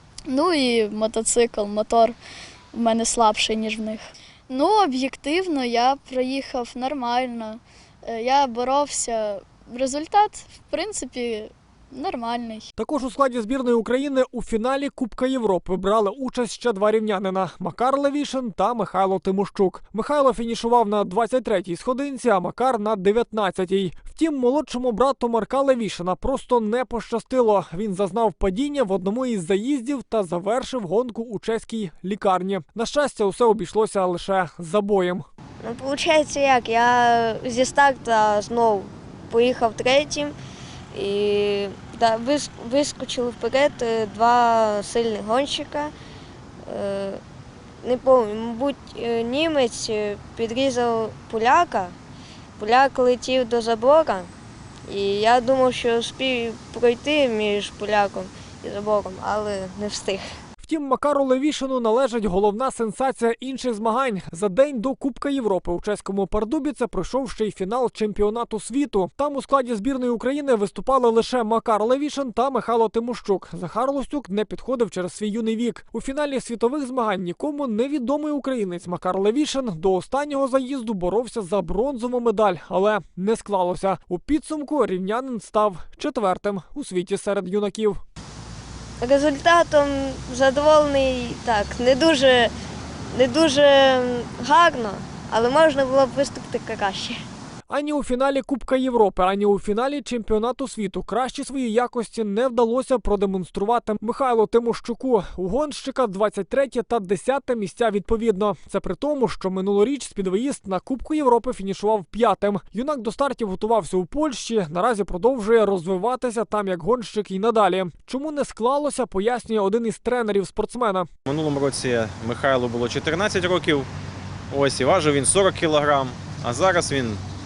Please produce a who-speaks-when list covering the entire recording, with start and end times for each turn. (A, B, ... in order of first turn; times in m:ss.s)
0:00.3-0:02.2 A
0:02.7-0:12.6 A
0:12.8-0:35.2 B
0:35.6-0:40.3 C
0:40.9-0:45.9 C
0:46.6-0:47.2 C
0:47.8-0:51.9 C
0:52.6-0:54.3 C
0:54.8-1:00.3 C
1:00.6-1:28.0 B
1:29.0-1:32.5 C
1:33.1-1:37.2 C
1:37.7-2:01.1 B
2:01.2-2:03.9 D
2:04.5-2:07.2 D